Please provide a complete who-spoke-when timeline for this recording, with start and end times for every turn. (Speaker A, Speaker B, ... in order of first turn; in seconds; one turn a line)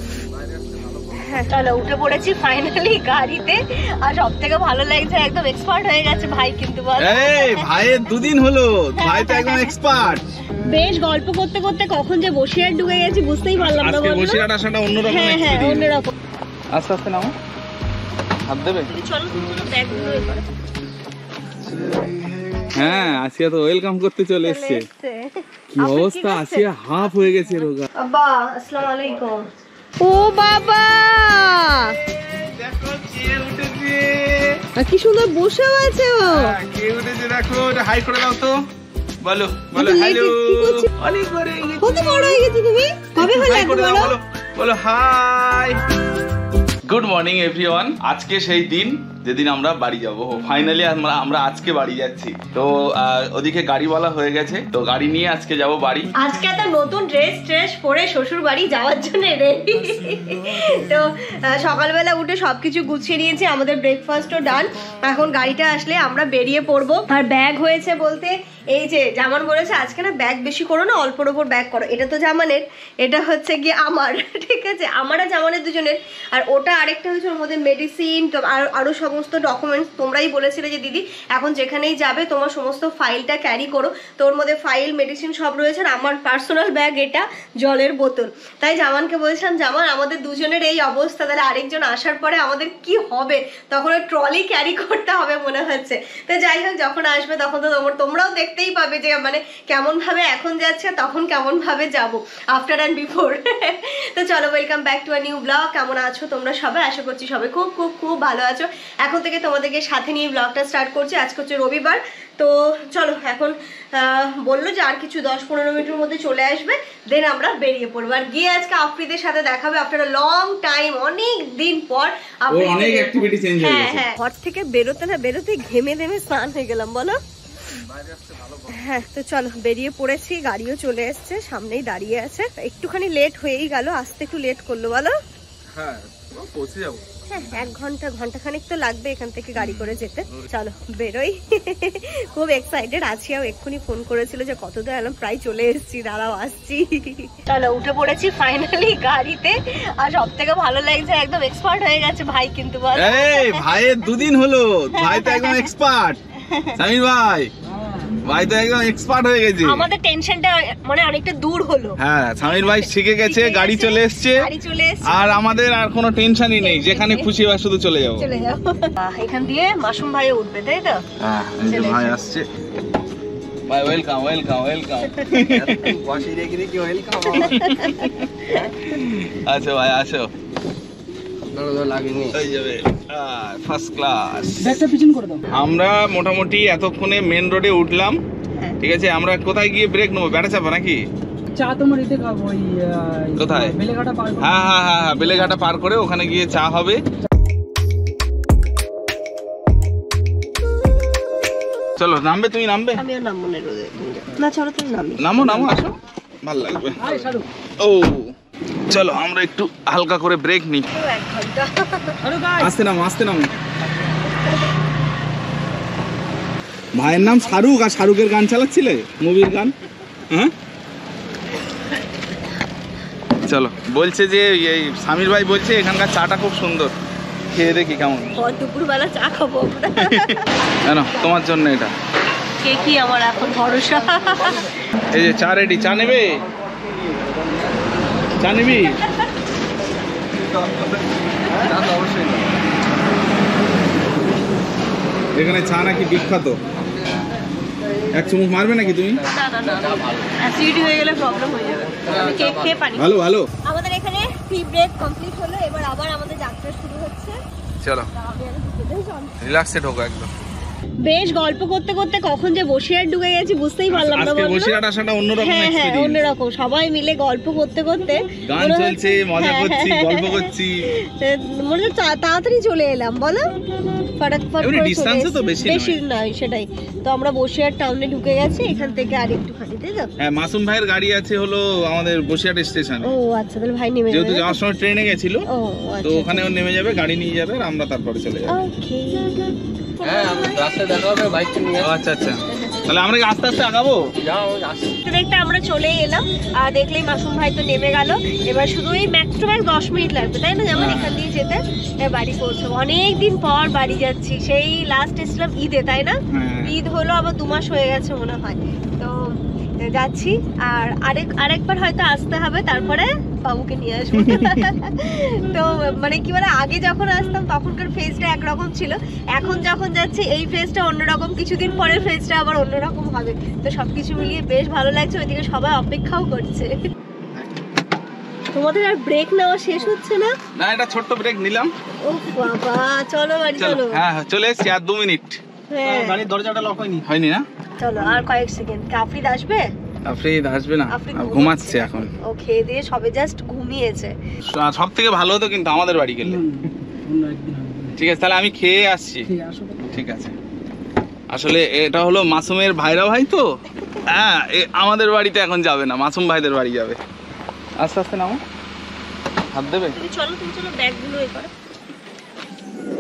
Speaker A: 0.5-1.2
Speaker B: 1.1-7.7
Speaker C: 7.0-10.4
Speaker B: 9.0-9.7
Speaker B: 10.5-14.5
Speaker C: 13.6-16.0
Speaker B: 15.0-16.1
Speaker C: 16.7-17.3
Speaker C: 18.5-18.9
Speaker B: 18.9-20.4
Speaker B: 22.4-23.2
Speaker C: 22.7-24.9
Speaker B: 24.4-26.7
Speaker C: 25.7-27.9
Speaker B: 28.0-29.5
Speaker B: 30.0-32.0
Speaker C: 32.0-34.6
Speaker B: 34.8-36.5
Speaker C: 36.3-38.5
Speaker C: 39.2-42.5
Speaker B: 39.8-40.9
Speaker B: 41.8-44.1
Speaker C: 43.2-45.8
Speaker C: 46.9-56.1
Speaker B: 56.2-127.2
Speaker C: 122.5-124.1
Speaker C: 127.9-128.8
Speaker B: 128.7-135.2
Speaker C: 135.7-137.7
Speaker B: 137.3-153.9
Speaker C: 139.6-140.5
Speaker C: 153.0-156.2
Speaker B: 154.9-155.7
Speaker B: 156.4-156.8
Speaker C: 156.8-157.5
Speaker A: 157.8-158.1
Speaker C: 158.2-159.8
Speaker B: 159.6-165.3
Speaker C: 162.0-164.5
Speaker C: 165.1-168.3
Speaker B: 166.6-167.3
Speaker B: 168.2-171.0
Speaker C: 171.2-172.5
Speaker B: 171.7-172.2
Speaker C: 173.7-176.0
Speaker B: 175.2-175.6
Speaker A: 175.5-177.6
Speaker B: 177.3-178.1
Speaker C: 177.3-180.3
Speaker A: 181.5-182.4
Speaker C: 182.3-184.8
Speaker A: 184.6-185.5
Speaker C: 185.5-188.2
Speaker C: 188.8-191.0
Speaker A: 191.5-194.7
Speaker C: 193.4-193.8
Speaker C: 194.4-197.0
Speaker C: 202.0-203.0
Speaker B: 203.0-205.4
Speaker C: 205.2-207.3
Speaker A: 207.0-207.5
Speaker C: 207.8-208.3
Speaker C: 208.9-210.9
Speaker B: 210.9-212.2
Speaker A: 212.2-212.7
Speaker C: 212.6-213.5
Speaker C: 216.9-219.8
Speaker C: 223.4-226.9
Speaker C: 227.5-228.3
Speaker B: 228.4-230.6
Speaker C: 230.0-230.3
Speaker C: 230.8-231.9
Speaker B: 232.6-234.7
Speaker C: 235.1-236.4
Speaker A: 237.1-237.7
Speaker C: 238.4-239.0
Speaker A: 240.5-242.6
Speaker C: 245.3-246.6
Speaker C: 248.1-249.2
Speaker B: 249.2-253.1
Speaker A: 249.6-250.3
Speaker A: 251.9-252.8
Speaker C: 253.0-253.5
Speaker B: 253.7-257.4
Speaker C: 257.8-258.1
Speaker B: 258.1-259.4
Speaker C: 259.4-260.3
Speaker B: 261.1-264.8
Speaker C: 263.9-266.2
Speaker B: 265.4-273.5
Speaker C: 268.5-270.9
Speaker B: 274.2-280.1
Speaker C: 274.6-276.0
Speaker C: 280.2-283.1
Speaker B: 283.0-284.6
Speaker C: 284.1-285.4
Speaker B: 285.5-286.5
Speaker C: 286.0-288.6
Speaker B: 288.5-290.8
Speaker A: 290.0-291.9
Speaker C: 291.8-294.0
Speaker B: 292.5-292.9
Speaker A: 294.2-294.9
Speaker B: 295.0-326.7
Speaker C: 300.7-301.2
Speaker C: 306.3-306.8
Speaker C: 314.2-314.7
Speaker B: 328.5-330.3
Speaker C: 330.6-331.7
Speaker B: 332.1-334.0
Speaker C: 333.6-335.4
Speaker B: 335.7-336.2
Speaker A: 335.9-337.1
Speaker C: 337.0-337.5
Speaker B: 337.8-339.6
Speaker C: 340.1-342.1
Speaker B: 340.9-344.1
Speaker C: 344.5-346.4
Speaker A: 346.2-348.0
Speaker C: 348.0-349.3
Speaker A: 349.3-349.8
Speaker C: 349.9-350.4
Speaker C: 351.3-353.4
Speaker C: 354.1-357.0
Speaker C: 357.8-358.4
Speaker C: 359.5-360.0
Speaker B: 359.9-361.5